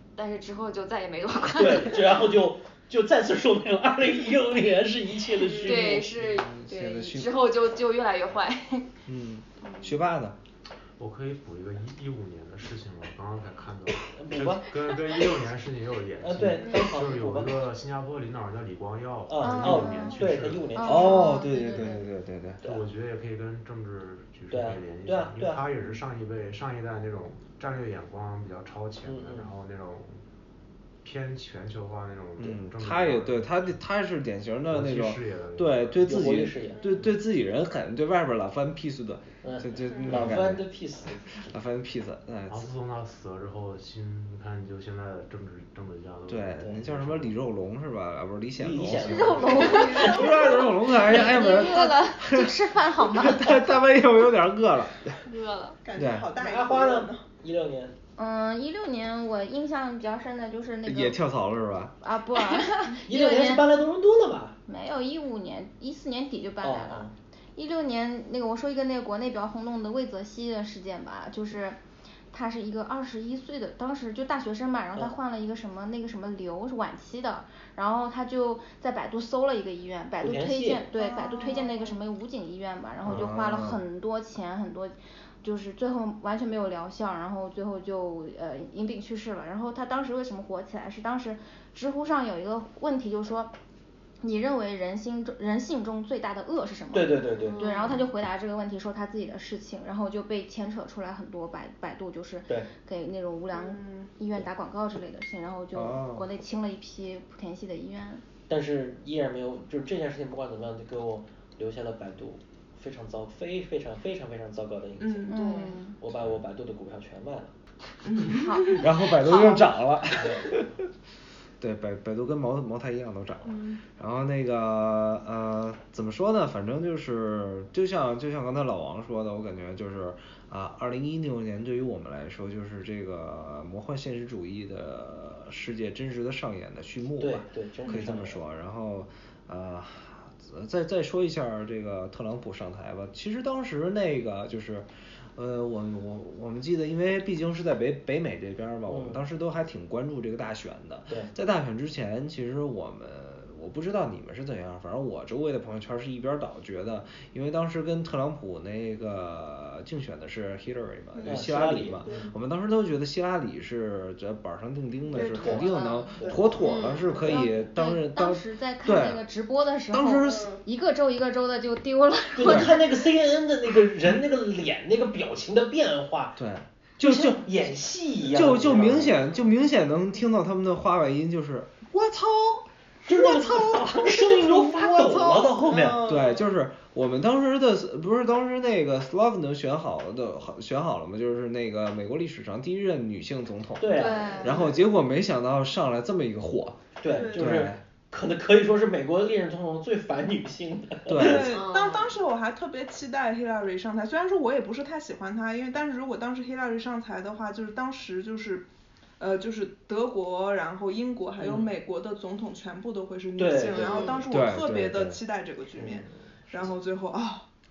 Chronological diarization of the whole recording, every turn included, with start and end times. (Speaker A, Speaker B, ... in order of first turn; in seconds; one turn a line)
Speaker A: 0.1-2.3
Speaker B: 1.5-6.1
Speaker A: 5.5-8.9
Speaker C: 5.9-7.4
Speaker C: 9.1-10.4
Speaker A: 9.6-10.0
Speaker D: 11.0-20.8
Speaker B: 14.1-15.4
Speaker B: 16.2-17.7
Speaker B: 19.3-21.2
Speaker E: 19.4-20.2
Speaker E: 20.8-22.0
Speaker C: 20.8-22.6
Speaker A: 21.0-21.9
Speaker D: 22.6-30.2
Speaker B: 24.5-25.7
Speaker B: 29.0-29.5
Speaker D: 31.0-33.6
Speaker C: 32.4-40.7
Speaker D: 34.7-36.4
Speaker B: 36.0-36.9
Speaker F: 36.8-37.0
Speaker B: 39.4-41.5
Speaker C: 41.4-42.7
Speaker D: 42.5-47.4
Speaker C: 46.3-55.2
Speaker B: 46.6-46.9
Speaker B: 48.6-50.4
Speaker E: 49.1-50.4
Speaker F: 49.7-50.3
Speaker E: 51.0-53.6
Speaker A: 55.2-55.8
Speaker F: 55.8-57.2
Speaker C: 56.0-56.3
Speaker B: 56.4-58.0
Speaker E: 58.2-61.2
Speaker C: 60.9-62.0
Speaker E: 62.0-63.7
Speaker B: 63.0-64.6
Speaker E: 64.7-71.8
Speaker B: 66.6-67.1
Speaker E: 72.3-93.5
Speaker B: 80.2-80.9
Speaker F: 80.9-82.0
Speaker C: 83.0-83.8
Speaker E: 94.2-108.2
Speaker B: 96.9-97.6
Speaker F: 97.4-98.0
Speaker F: 103.5-104.1
Speaker C: 105.7-106.3
Speaker B: 108.5-115.3
Speaker F: 115.0-115.4
Speaker E: 115.3-116.0
Speaker A: 115.3-115.8
Speaker B: 116.0-117.5
Speaker F: 118.0-118.8
Speaker E: 118.2-119.7
Speaker C: 118.8-120.9
Speaker B: 120.1-120.7
Speaker C: 121.6-169.2
Speaker F: 123.5-123.8
Speaker B: 137.2-138.4
Speaker B: 148.9-149.2
Speaker F: 161.2-162.3
Speaker B: 161.3-162.3
Speaker F: 165.1-167.5
Speaker E: 165.4-166.2
Speaker A: 166.6-167.1
Speaker E: 167.1-173.0
Speaker C: 169.9-170.5
Speaker F: 170.3-170.6
Speaker B: 172.3-176.4
Speaker C: 172.5-172.7
Speaker C: 176.4-177.5
Speaker B: 177.0-179.2
Speaker C: 178.3-182.7
Speaker B: 183.1-186.1
Speaker F: 183.3-186.5
Speaker C: 186.0-197.8
Speaker B: 193.8-194.8
Speaker A: 193.9-194.7
Speaker B: 197.0-201.6
Speaker F: 197.1-197.7
Speaker C: 201.1-201.5
Speaker F: 201.2-208.7
Speaker A: 201.5-202.1
Speaker F: 209.2-217.5
Speaker B: 211.4-211.7
Speaker B: 213.4-214.3
Speaker A: 213.7-214.2
Speaker C: 214.3-215.2
Speaker B: 215.8-216.7